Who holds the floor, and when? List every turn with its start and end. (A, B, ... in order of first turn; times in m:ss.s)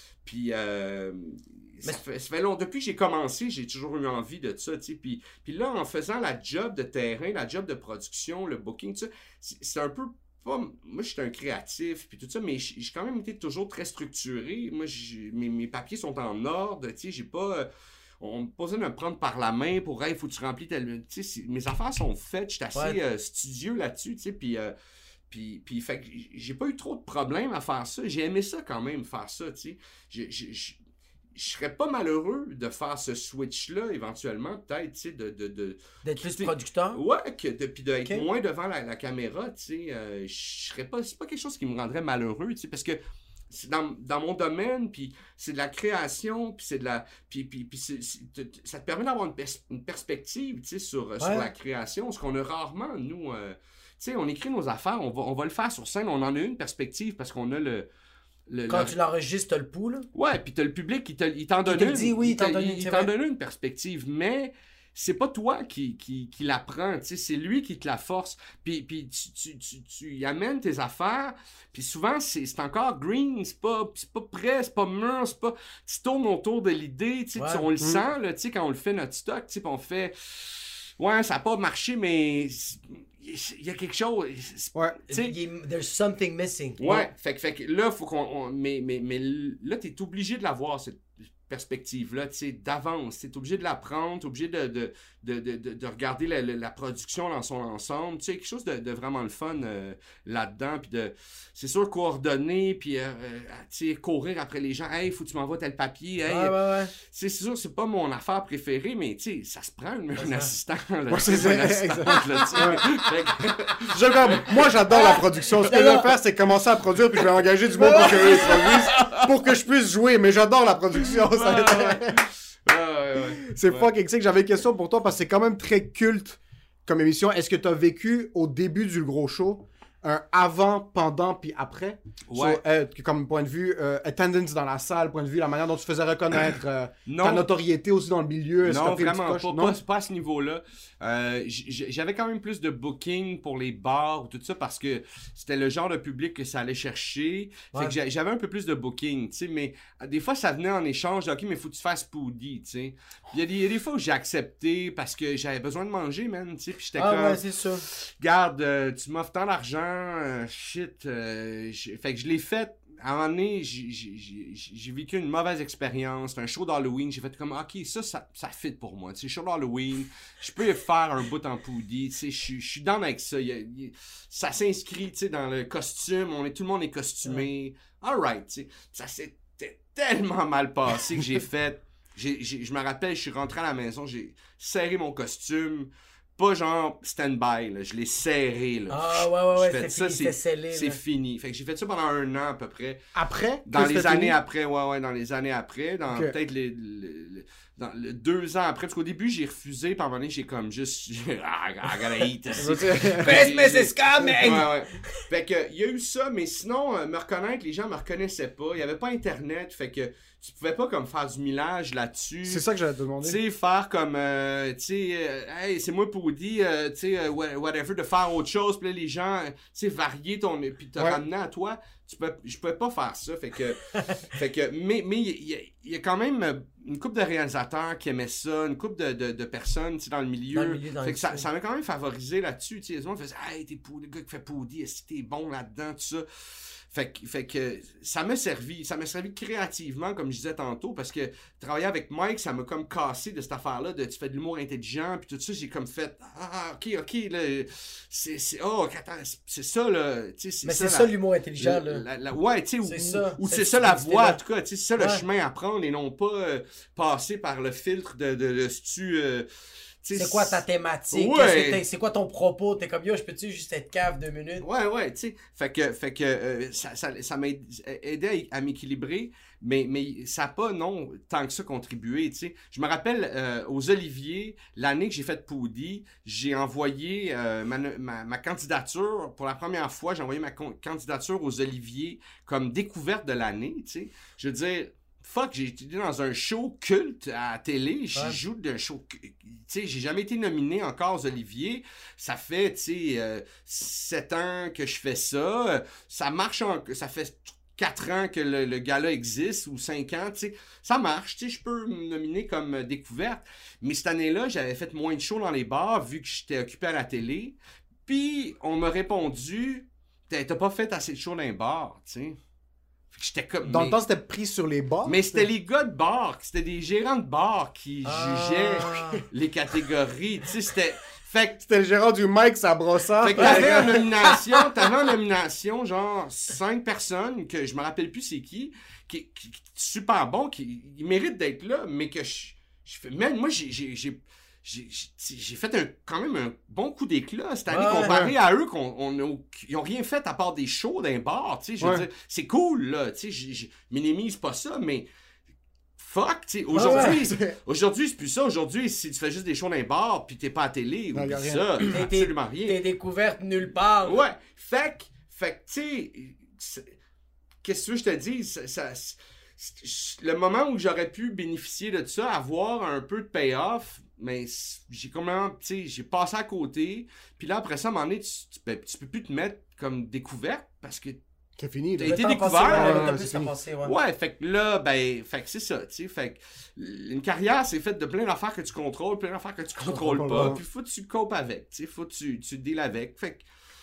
0:00.2-0:17.7 A
0:18.2-0:24.7 A
0:25.3-0:30.8 A
0:31.4-0:43.0 A
0:36.0-0:37.0 B
0:43.5-0:57.9 A
0:51.2-0:51.5 B
0:58.5-0:58.9 A
0:58.7-1:00.1 B
1:00.2-1:25.3 A
1:01.7-1:03.1 B
1:17.4-1:17.6 B
1:25.1-1:27.1 B
1:26.8-1:54.5 A
1:46.3-1:46.9 B
1:50.2-1:50.5 B
1:51.1-1:52.8 C
1:52.6-1:53.0 B
1:53.9-2:02.2 C
1:54.9-1:56.1 B
1:57.8-1:58.7 B
1:58.0-1:59.3 A
2:01.0-2:03.9 A
2:03.5-2:19.8 C
2:12.3-2:12.6 A
2:17.1-2:17.5 A
2:18.6-3:13.0 A
2:37.0-2:37.8 B
3:08.9-3:11.0 B
3:13.2-3:14.4 C
3:13.7-3:32.6 A
3:22.6-3:23.5 C
3:23.2-3:25.2 B
3:24.2-3:24.5 C
3:32.4-3:33.4 C
3:33.2-4:19.5 A
3:50.5-3:51.5 B
4:10.6-4:12.0 B
4:12.8-4:14.4 B
4:20.0-4:21.8 A
4:20.1-4:24.6 B
4:24.6-5:12.4 A
5:13.1-5:14.0 A
5:13.6-5:15.5 C
5:15.0-5:21.6 A
5:18.0-5:19.2 B
5:21.6-5:24.1 C
5:23.2-5:45.1 A
5:23.4-5:24.3 B
5:37.7-5:38.2 B
5:38.0-5:38.3 C
5:41.8-5:42.1 C
5:46.0-5:52.8 A
5:46.8-5:47.2 B
5:46.9-5:47.6 C
5:51.1-5:51.9 C
5:51.9-5:54.2 B
5:54.0-5:56.9 A
5:57.6-6:11.2 A
6:11.6-6:13.5 C
6:12.0-6:14.0 B
6:12.0-6:13.2 A
6:13.8-6:23.4 A
6:19.9-6:20.6 C